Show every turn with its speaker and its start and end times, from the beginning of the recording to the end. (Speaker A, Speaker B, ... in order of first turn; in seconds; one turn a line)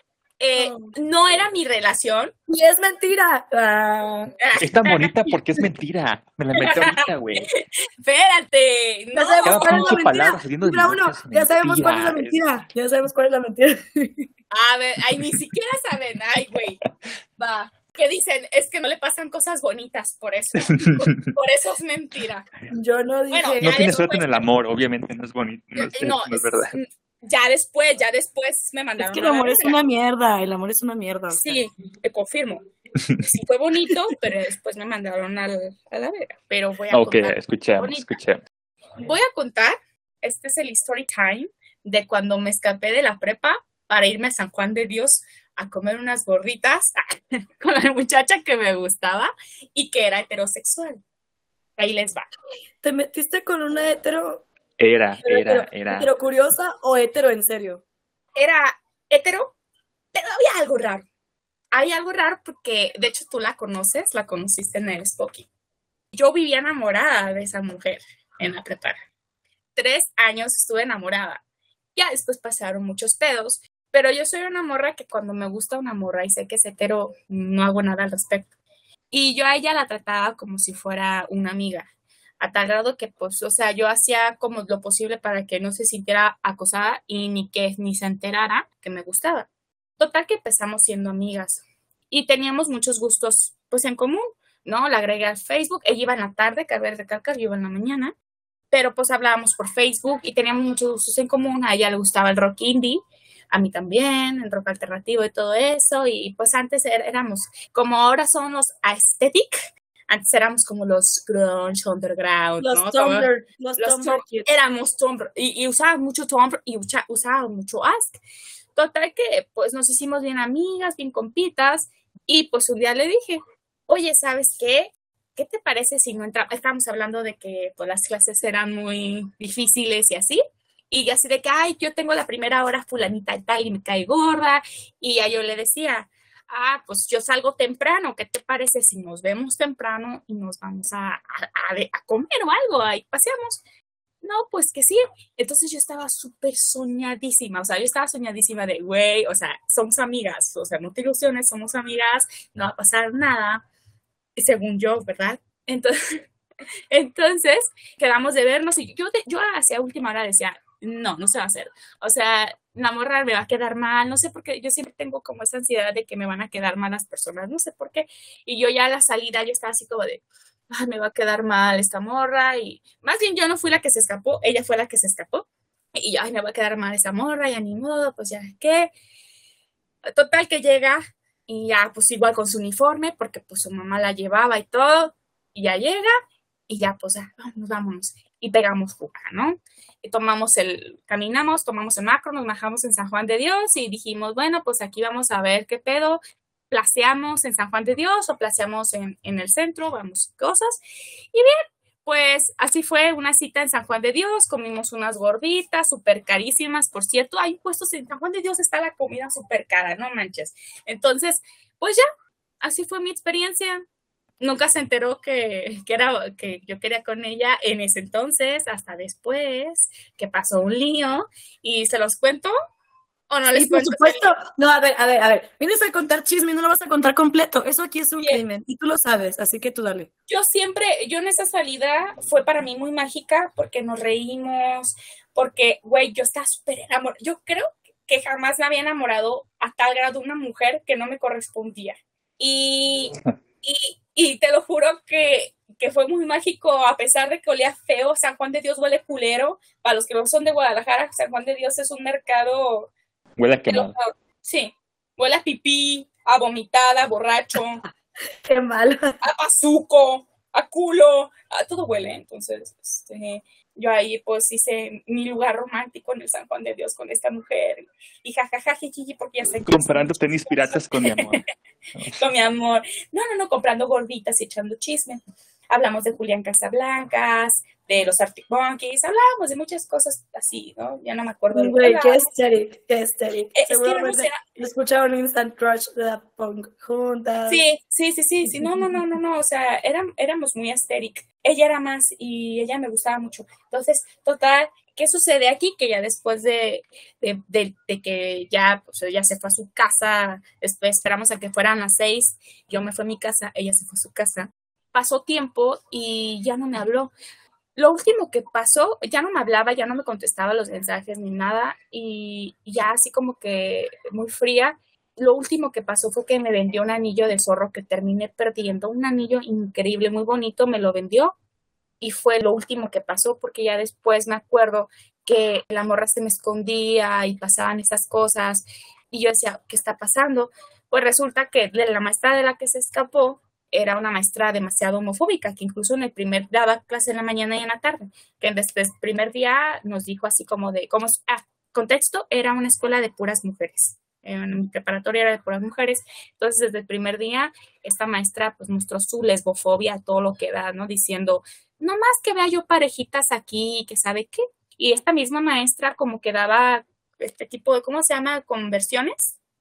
Speaker A: 0.4-2.3
Speaker B: 0.5-0.9
Speaker B: 2.5-4.3
Speaker A: 4.4-5.3
Speaker C: 4.6-7.5
Speaker A: 6.6-10.0
Speaker B: 9.1-14.3
Speaker C: 9.4-12.4
Speaker A: 14.5-16.8
Speaker A: 17.4-22.5
Speaker C: 20.6-21.3
Speaker B: 22.7-23.8
Speaker A: 23.3-24.4
Speaker C: 23.6-26.7
Speaker A: 25.8-29.8
Speaker B: 29.0-31.6
Speaker A: 31.3-32.6
Speaker C: 33.0-33.2
Speaker A: 33.2-38.1
Speaker C: 36.9-38.4
Speaker A: 39.0-47.0
Speaker A: 47.6-51.0
Speaker A: 51.8-52.3
Speaker B: 52.8-54.5
Speaker C: 54.8-56.1
Speaker B: 55.2-57.8
Speaker A: 58.4-59.5
Speaker A: 60.1-61.0
Speaker A: 61.7-65.5
Speaker A: 66.1-69.0
Speaker A: 69.8-71.4
Speaker A: 72.0-78.5
Speaker A: 79.1-81.9
Speaker A: 82.4-98.1
Speaker A: 98.7-118.2
Speaker B: 112.6-114.5
Speaker A: 118.8-143.6
Speaker A: 144.2-153.6
Speaker A: 154.3-156.0
Speaker A: 156.9-178.9
Speaker A: 180.1-186.1
Speaker A: 186.7-200.8
Speaker A: 201.3-212.0
Speaker A: 212.6-213.8
Speaker A: 214.4-222.5
Speaker A: 223.3-224.3
Speaker B: 223.5-230.1
Speaker A: 230.3-252.9
Speaker C: 253.4-253.9
Speaker A: 253.7-257.8
Speaker B: 258.4-259.1
Speaker A: 259.2-271.4
Speaker C: 269.6-271.4
Speaker A: 272.1-282.2
Speaker B: 281.5-287.6
Speaker A: 283.5-284.4
Speaker A: 287.5-307.1
Speaker A: 307.8-321.3
Speaker A: 322.0-359.4